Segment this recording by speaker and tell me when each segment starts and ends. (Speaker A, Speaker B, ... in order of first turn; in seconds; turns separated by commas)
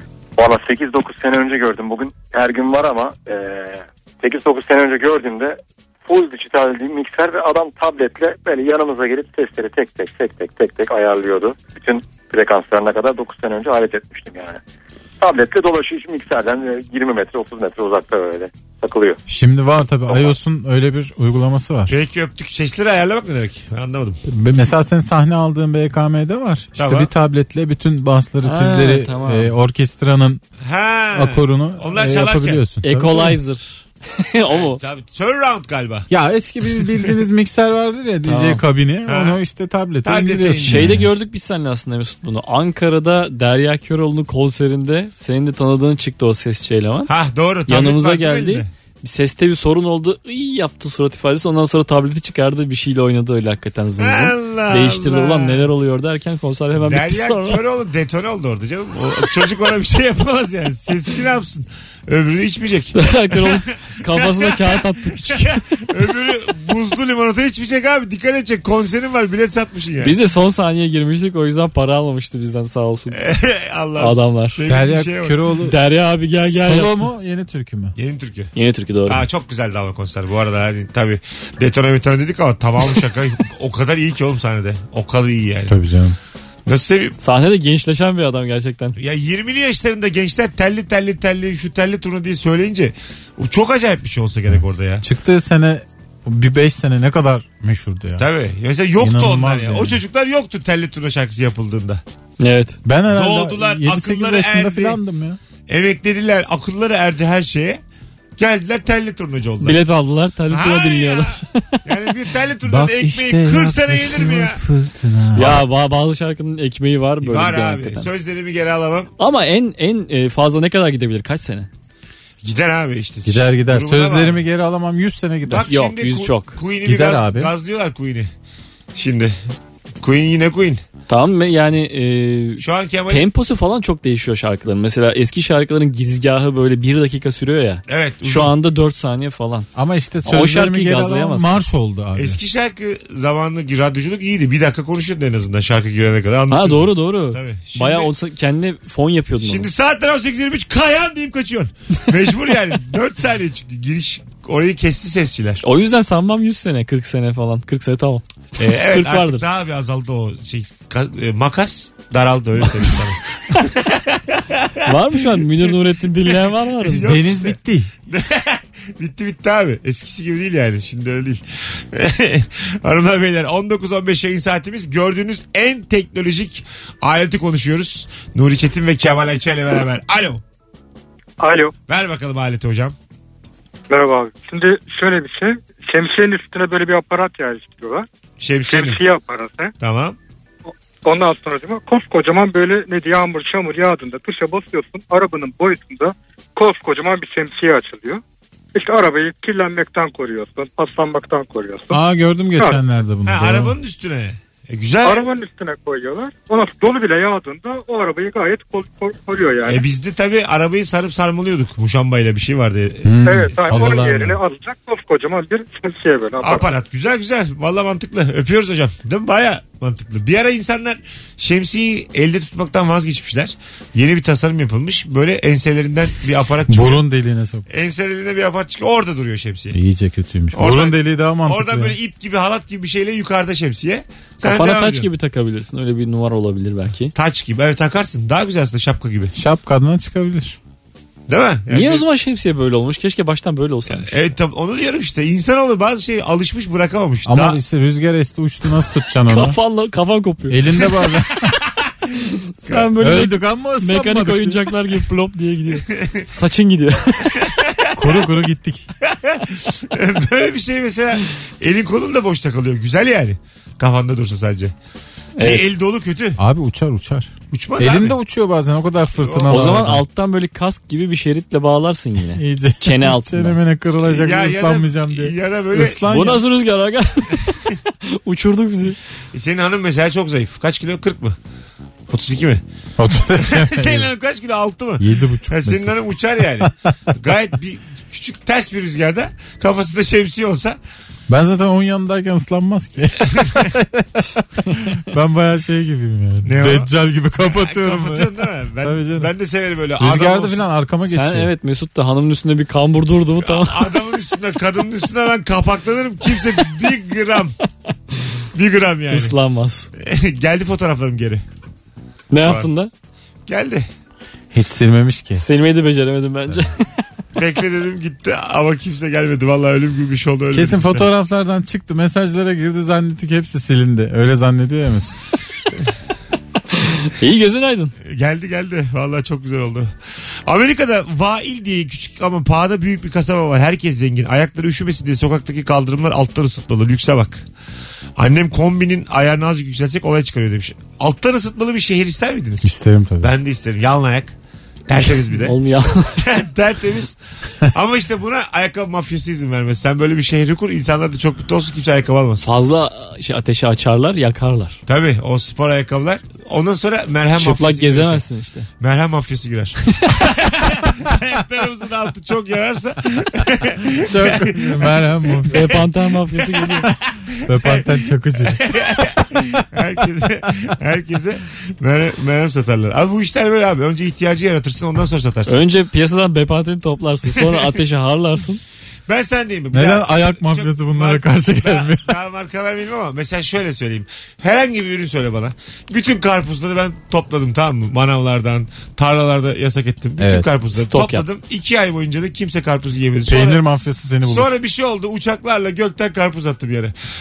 Speaker A: 0.4-14.6, Speaker A: 15.2-19.2, Speaker B: 19.3-21.9, Speaker C: 21.9-24.2, Speaker B: 24.2-30.4, Speaker C: 26.8-27.1, Speaker D: 28.4-29.5, Speaker C: 30.6-32.6, Speaker B: 31.1-33.4, Speaker D: 32.8-34.8, Speaker C: 34.5-36.1, Speaker B: 36.1-41.1, Speaker C: 36.8-37.1, Speaker D: 38.3-38.6, Speaker C: 39.1-39.4, Speaker C: 40.0-40.9, Speaker D: 40.6-47.1, Speaker C: 47.1-48.7, Speaker D: 47.7-57.6, Speaker C: 54.0-55.6, Speaker C: 56.8-70.1, Speaker D: 62.9-65.6, Speaker D: 70.0-73.2, Speaker C: 73.1-75.4, Speaker D: 74.0-74.6, Speaker B: 74.7-75.8, Speaker D: 75.6-77.0, Speaker B: 76.6-77.9, Speaker C: 78.0-78.5, Speaker D: 78.5-79.2, Speaker C: 79.1-85.7, Speaker B: 85.7-86.2, Speaker C: 86.7-87.1, Speaker D: 87.2-89.0, Speaker C: 89.0-95.0, Speaker B: 94.5-98.3, Speaker C: 98.2-102.0, Speaker B: 99.0-100.0, Speaker D: 102.4-102.8, Speaker B: 102.8-105.4, Speaker C: 103.1-105.0, Speaker C: 105.7-107.8, Speaker C: 108.4-109.8, Speaker D: 109.6-111.9, Speaker C: 110.5-114.6, Speaker B: 112.6-115.5, Speaker C: 115.3-115.6, Speaker D: 115.3-118.1, Speaker C: 117.2-119.1, Speaker D: 119.2-121.7, Speaker C: 122.4-124.4, Speaker B: 123.2-125.7, Speaker C: 125.5-128.3, Speaker D: 125.7-126.6, Speaker B: 126.8-127.5, Speaker C: 128.9-129.3, Speaker C: 130.0-130.8, Speaker D: 131.1-139.7, Speaker C: 132.6-133.3, Speaker C: 137.9-138.5, Speaker B: 139.7-142.4, Speaker D: 140.2-141.6, Speaker C: 142.2-148.1, Speaker D: 146.5-149.7, Speaker C: 149.4-155.6, Speaker D: 155.6-159.4, Speaker C: 158.6-164.9, Speaker D: 164.8-167.2, Speaker C: 166.8-180.4, Speaker B: 167.0-167.9, Speaker E: 181.4-181.7, Speaker C: 181.9-182.9, Speaker E: 183.9-188.1, Speaker C: 188.4-189.0, Speaker E: 188.7-189.7, Speaker C: 189.8-190.2, Speaker E: 190.7-198.2, Speaker E: 198.7-202.0, Speaker B: 201.9-203.8, Speaker E: 202.6-202.8, Speaker C: 203.2-205.3, Speaker E: 205.0-209.8, Speaker C: 209.6-214.0, Speaker B: 213.0-214.4, Speaker E: 213.2-216.7, Speaker C: 216.4-227.0, Speaker B: 226.7-227.7, Speaker C: 227.7-229.8, Speaker B: 229.7-232.0, Speaker C: 230.5-235.1, Speaker D: 234.4-237.1, Speaker C: 237.1-239.3, Speaker B: 239.3-240.6, Speaker C: 241.3-242.0, Speaker D: 241.7-244.1, Speaker C: 243.9-247.6, Speaker B: 247.2-249.6, Speaker D: 249.3-250.9, Speaker B: 250.5-251.5, Speaker D: 252.6-257.5, Speaker C: 252.6-252.9, Speaker B: 253.0-254.7, Speaker C: 255.9-256.2, Speaker B: 257.9-258.9, Speaker C: 259.0-264.7, Speaker D: 265.4-265.6, Speaker C: 265.4-266.4, Speaker B: 266.4-270.0, Speaker C: 267.5-268.2, Speaker C: 269.2-269.9, Speaker D: 269.5-273.6, Speaker B: 272.3-276.4, Speaker C: 274.0-276.0, Speaker D: 276.1-279.0, Speaker C: 279.3-281.4, Speaker C: 282.1-282.6, Speaker B: 283.0-284.1, Speaker C: 283.3-290.8, Speaker B: 285.0-286.7, Speaker B: 291.3-299.3, Speaker C: 293.3-293.7, Speaker C: 296.4-300.6, Speaker B: 300.0-301.5, Speaker D: 301.0-304.0, Speaker C: 303.4-307.5, Speaker C: 308.5-309.3, Speaker D: 309.1-309.9, Speaker C: 310.0-311.4, Speaker D: 312.3-312.9, Speaker C: 312.4-312.7, Speaker C: 313.5-313.9, Speaker B: 314.5-315.4, Speaker D: 315.4-316.9, Speaker C: 317.4-321.1, Speaker B: 320.5-325.2, Speaker D: 326.7-327.9, Speaker C: 328.0-329.9, Speaker C: 330.4-337.4, Speaker C: 338.2-344.3, Speaker B: 342.6-343.3, Speaker C: 344.9-345.6, Speaker D: 345.3-346.2, Speaker C: 346.2-352.5, Speaker D: 352.4-354.8, Speaker C: 354.9-358.2, Speaker D: 357.4-358.7, Speaker C: 358.8-365.8, Speaker B: 364.0-365.8, Speaker D: 365.5-366.9, Speaker C: 366.7-375.6, Speaker B: 367.4-368.7, Speaker D: 375.5-378.6, Speaker C: 377.4-377.7, Speaker C: 379.1-393.6, Speaker B: 379.7-382.2, Speaker B: 390.2-390.5, Speaker D: 390.7-391.2, Speaker B: 393.2-394.6, Speaker C: 394.2-396.9